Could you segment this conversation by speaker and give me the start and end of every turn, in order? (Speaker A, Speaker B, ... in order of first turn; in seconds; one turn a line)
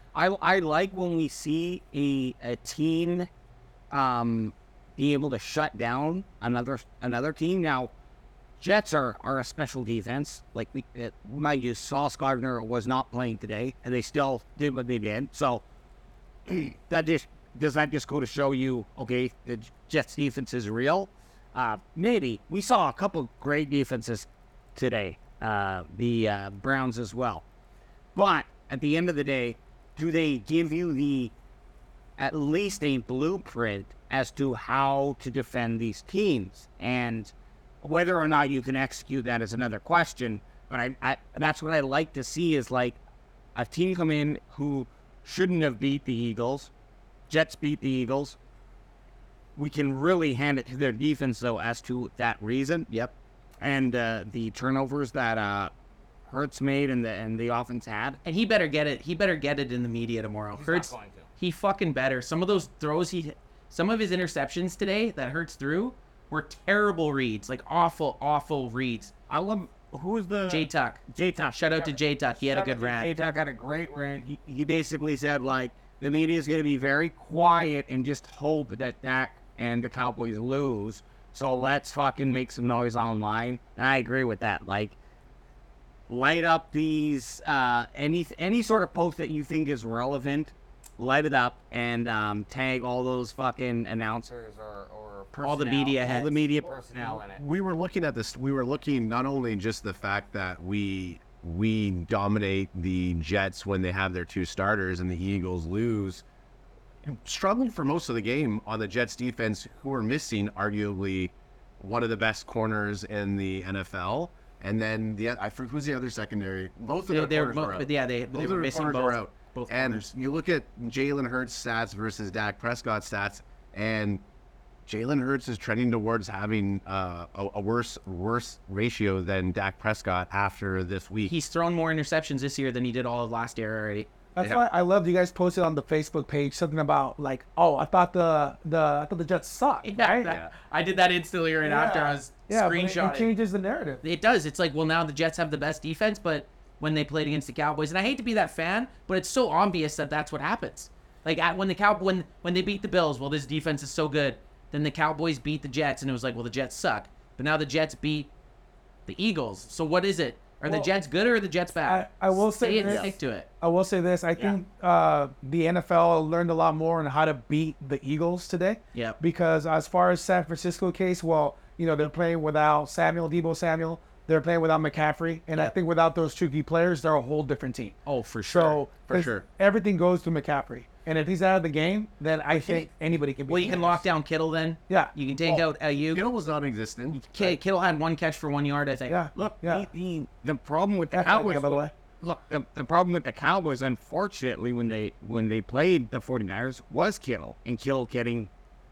Speaker A: 0.1-3.3
Speaker A: 3.9-7.9
Speaker A: 8.6-15.6
Speaker A: 16.4-27.4
Speaker A: 28.1-31.3
Speaker A: 32.2-43.0
Speaker A: 43.5-46.7
Speaker A: 47.3-48.4
Speaker A: 49.5-52.9
Speaker A: 53.6-55.7
Speaker A: 56.3-58.2
Speaker B: 58.2-69.1
Speaker A: 60.5-61.3
Speaker A: 69.3-85.0
Speaker B: 70.5-71.0
Speaker B: 71.5-73.1
Speaker A: 86.1-97.4
Speaker B: 95.4-96.3
Speaker C: 97.0-106.2
Speaker C: 107.0-124.2
Speaker B: 117.1-120.1
Speaker C: 124.8-131.3
Speaker B: 131.3-134.1
Speaker D: 134.3-140.3
Speaker B: 139.8-143.3
Speaker C: 140.2-140.5
Speaker D: 141.6-144.0
Speaker B: 144.0-158.3
Speaker B: 159.1-163.5
Speaker D: 161.8-178.0
Speaker A: 162.8-163.1
Speaker B: 168.9-169.2
Speaker B: 178.1-178.8
Speaker D: 178.5-184.0
Speaker C: 179.1-179.4
Speaker A: 182.5-182.9
Speaker B: 183.5-186.2
Speaker C: 185.4-187.6
Speaker B: 187.2-189.1
Speaker D: 189.1-189.9
Speaker A: 189.3-198.5
Speaker D: 191.1-191.9